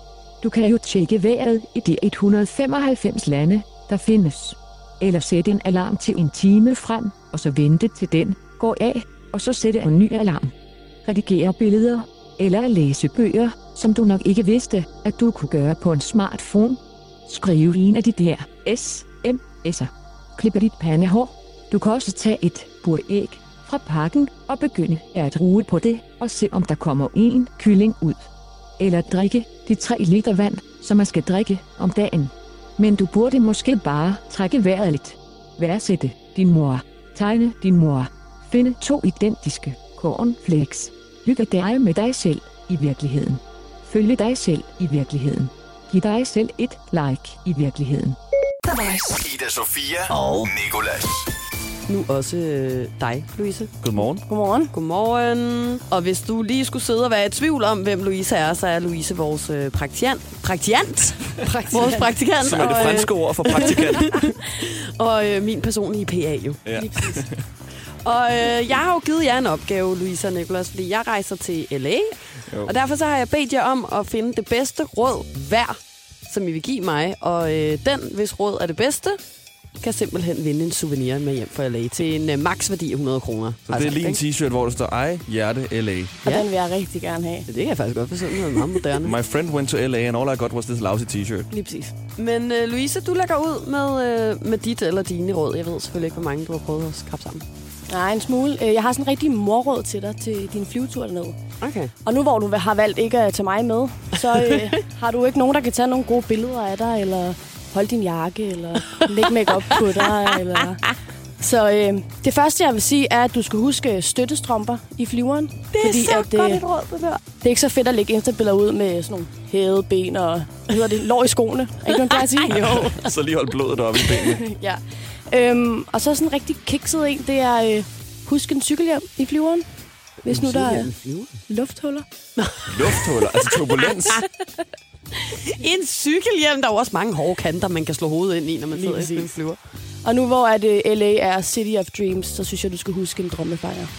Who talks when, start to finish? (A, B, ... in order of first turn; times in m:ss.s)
0:00.4-0:10.5 A
0:11.0-0:48.2 A
0:48.7-0:51.3 B
0:50.1-0:50.5 C
0:51.9-0:53.7 C
0:53.8-0:54.2 D
0:54.3-0:54.7 E
0:54.7-1:06.6 C
1:02.3-1:04.2 D
1:06.6-1:07.4 D
1:08.0-1:19.2 C
1:12.5-1:12.7 D
1:19.8-1:24.2 C
1:23.7-1:26.2 D
1:26.2-1:27.4 E
1:27.4-1:29.2 C
1:29.0-1:31.5 D
1:31.5-1:31.9 E
1:32.2-1:37.4 C
1:37.9-1:41.4 E
1:41.6-1:41.9 C
1:42.0-1:50.8 E
1:44.3-1:44.6 C
1:49.1-1:50.8 C
1:51.4-1:56.6 E
1:55.7-1:57.2 C
1:57.4-2:02.8 E
2:01.9-2:02.8 C
2:02.4-2:04.5 D
2:04.4-2:09.6 E
2:10.2-2:11.4 C
2:10.2-2:10.9 E
2:11.5-2:12.0 E
2:12.4-2:13.1 C
2:12.7-2:14.2 D
2:15.2-2:19.6 C
2:18.7-2:19.3 E
2:20.0-2:23.9 E